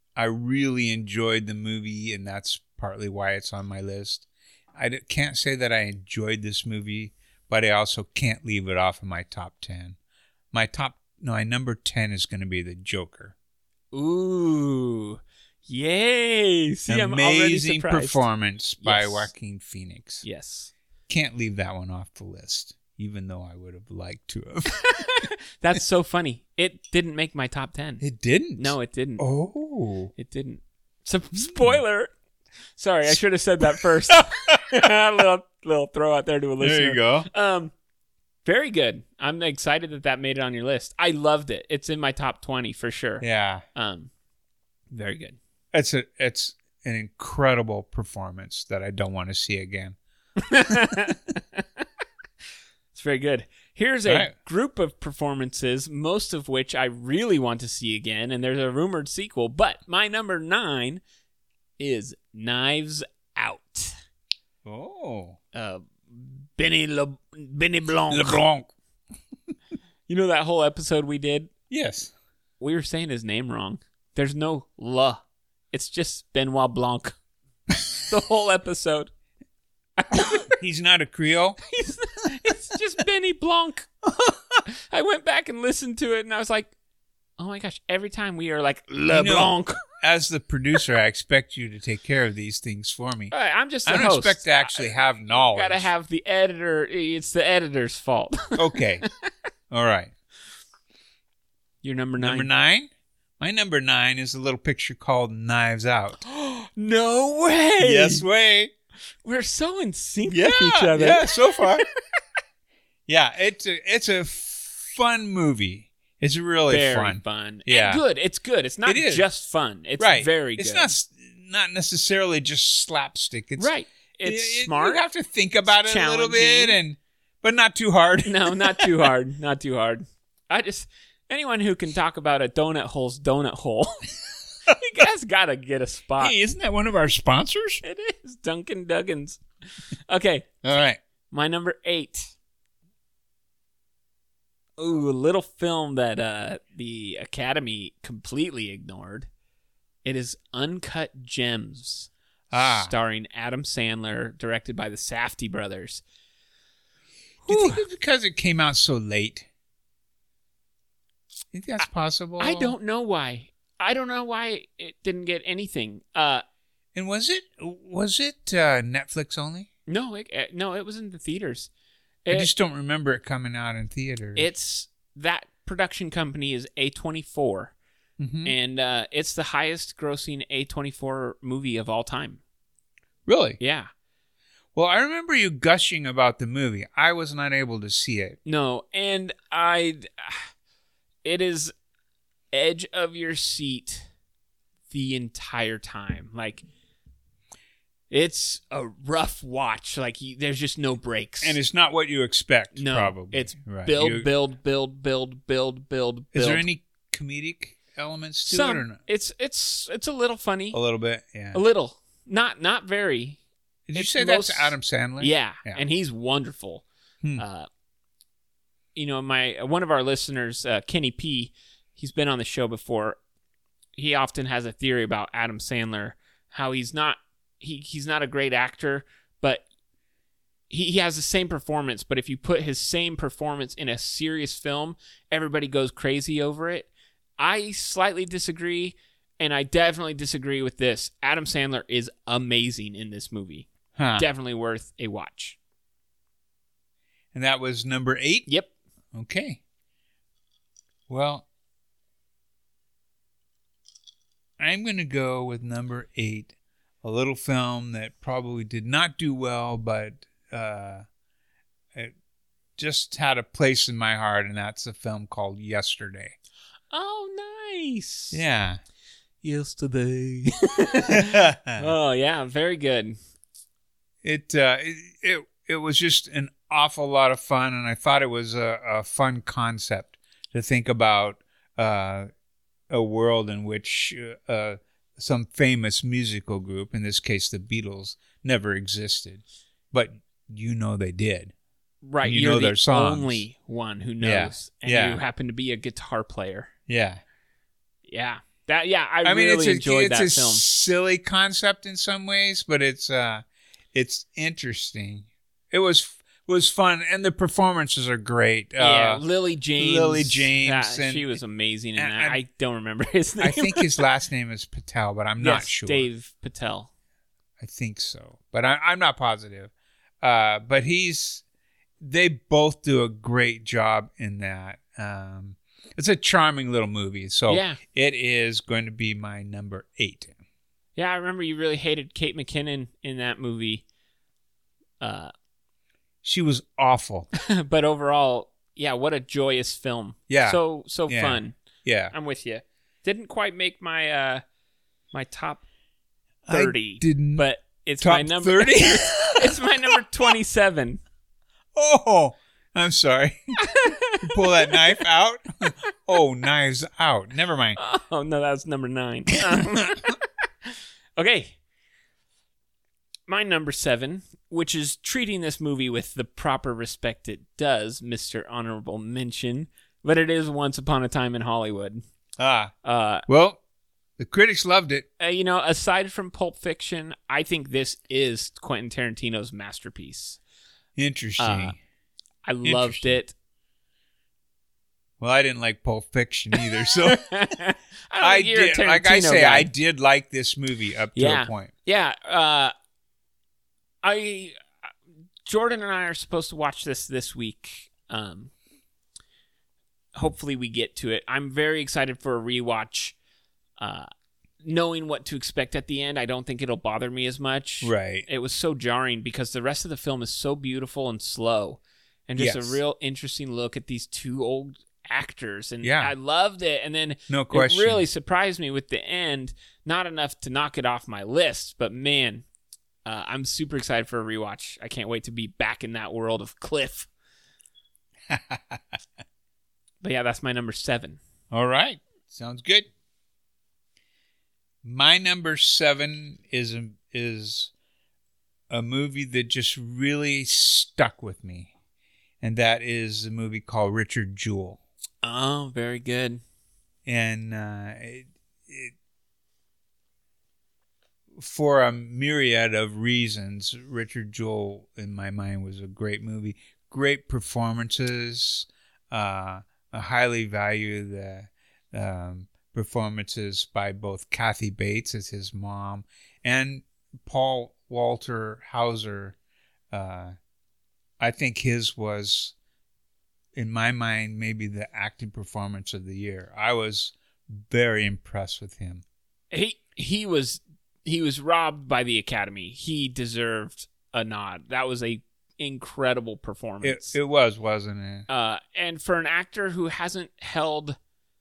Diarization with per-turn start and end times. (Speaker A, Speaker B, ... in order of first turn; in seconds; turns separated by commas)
Speaker A: 0.1-10.0, Speaker A: 10.5-13.3, Speaker B: 13.9-18.2, Speaker A: 16.9-20.2, Speaker B: 18.8-19.3, Speaker B: 20.2-20.7, Speaker A: 21.1-24.9, Speaker B: 24.8-28.0, Speaker A: 28.0-30.1, Speaker B: 28.6-29.2, Speaker B: 30.1-32.1, Speaker A: 31.4-31.8, Speaker B: 32.8-37.7, Speaker A: 36.6-37.3, Speaker B: 38.4-44.1, Speaker A: 43.2-43.6, Speaker B: 44.9-45.4, Speaker A: 45.7-50.0, Speaker B: 50.4-51.6, Speaker B: 52.9-61.0, Speaker A: 54.0-54.3, Speaker B: 61.8-63.9, Speaker A: 64.6-65.4, Speaker B: 65.5-68.4, Speaker A: 68.1-68.7, Speaker B: 70.1-71.5, Speaker A: 71.7-72.1, Speaker B: 72.6-77.2, Speaker B: 78.1-79.1, Speaker B: 80.0-80.5, Speaker A: 80.4-81.6, Speaker B: 81.6-83.9, Speaker A: 84.0-84.6, Speaker B: 84.9-86.7, Speaker B: 87.4-89.8, Speaker A: 89.1-93.3, Speaker B: 93.3-98.8, Speaker A: 93.8-95.9, Speaker A: 98.5-99.0, Speaker A: 99.7-100.1, Speaker B: 101.8-102.5, Speaker A: 102.2-106.2, Speaker B: 106.2-108.2, Speaker A: 107.8-108.7, Speaker B: 109.2-111.7, Speaker A: 110.3-111.8, Speaker A: 113.1-118.0, Speaker B: 116.7-120.9, Speaker A: 118.8-119.3, Speaker A: 120.0-123.7, Speaker B: 123.6-125.0, Speaker A: 124.2-129.1, Speaker B: 125.8-126.8, Speaker B: 128.2-134.0, Speaker B: 134.7-136.3, Speaker A: 136.2-137.8, Speaker B: 137.8-139.4, Speaker B: 140.1-140.6, Speaker A: 140.6-141.0, Speaker B: 141.3-142.3, Speaker B: 144.8-149.3, Speaker B: 150.0-156.0, Speaker A: 152.5-152.9, Speaker B: 157.4-157.8, Speaker A: 157.4-159.5, Speaker A: 161.5-162.7, Speaker B: 162.4-166.4, Speaker A: 166.9-169.7, Speaker B: 169.9-171.7, Speaker A: 172.3-174.5, Speaker B: 174.3-177.7, Speaker A: 178.2-178.5, Speaker B: 178.4-182.4, Speaker A: 183.2-183.6, Speaker B: 183.6-183.9, Speaker A: 184.7-188.4, Speaker B: 188.4-190.5, Speaker B: 191.2-191.7, Speaker B: 192.5-194.1, Speaker B: 194.9-196.6, Speaker B: 198.1-201.6, Speaker A: 201.4-204.3, Speaker B: 202.7-206.7, Speaker A: 206.3-209.0, Speaker B: 208.5-210.8, Speaker A: 210.7-211.6, Speaker B: 211.5-213.4, Speaker A: 213.9-215.8, Speaker B: 213.9-216.8, Speaker B: 217.4-217.7, Speaker B: 218.9-223.2, Speaker B: 223.9-229.6, Speaker B: 230.7-245.6, Speaker A: 243.9-244.3, Speaker A: 247.3-248.5, Speaker A: 249.1-249.6, Speaker A: 251.1-251.4, Speaker A: 254.6-261.0, Speaker A: 262.8-266.4, Speaker B: 266.9-268.4, Speaker A: 268.3-268.8, Speaker B: 269.4-273.2, Speaker A: 271.1-271.9, Speaker A: 274.2-282.3, Speaker A: 282.9-291.5, Speaker B: 292.0-296.7, Speaker A: 292.2-293.4, Speaker A: 294.2-295.2, Speaker A: 296.9-297.2, Speaker B: 298.1-300.6, Speaker A: 299.2-309.2, Speaker B: 308.8-314.0, Speaker A: 309.8-311.3, Speaker A: 311.9-312.4, Speaker A: 313.4-316.1, Speaker B: 315.4-316.9, Speaker A: 317.6-321.4, Speaker A: 322.0-330.4, Speaker B: 327.5-327.8, Speaker B: 330.9-333.8, Speaker B: 335.0-335.3, Speaker A: 336.2-337.3, Speaker B: 337.5-341.6, Speaker A: 340.3-342.1, Speaker B: 342.1-344.4, Speaker B: 345.1-345.6, Speaker A: 346.5-347.4, Speaker B: 346.5-351.0, Speaker A: 348.0-349.9, Speaker A: 351.7-357.8, Speaker B: 353.7-354.8, Speaker B: 357.8-360.1, Speaker B: 361.1-361.6, Speaker B: 363.3-372.0, Speaker A: 372.4-372.7, Speaker B: 372.8-373.2, Speaker A: 373.3-373.6, Speaker A: 374.2-375.1, Speaker B: 375.2-380.4, Speaker A: 380.9-381.8, Speaker B: 381.4-381.7, Speaker B: 382.4-383.3, Speaker A: 382.6-383.1, Speaker A: 385.2-387.3, Speaker B: 386.5-389.7, Speaker A: 388.2-391.7, Speaker B: 391.1-392.7, Speaker B: 394.0-394.6, Speaker B: 395.4-398.5, Speaker B: 400.1-403.1, Speaker B: 403.8-404.1, Speaker B: 404.6-422.4, Speaker A: 407.8-408.3, Speaker A: 412.4-412.8, Speaker A: 415.8-416.1, Speaker A: 417.3-418.0, Speaker B: 423.0-427.1, Speaker A: 428.3-428.8, Speaker B: 430.0-431.2, Speaker A: 431.5-432.9, Speaker A: 434.8-437.7, Speaker A: 438.7-441.7, Speaker A: 442.4-444.8, Speaker B: 445.2-446.4, Speaker A: 447.1-448.9, Speaker A: 451.3-469.4, Speaker A: 469.9-470.4, Speaker A: 471.2-472.5, Speaker A: 473.5-479.0, Speaker B: 479.5-487.2, Speaker A: 486.8-488.3, Speaker B: 488.3-491.0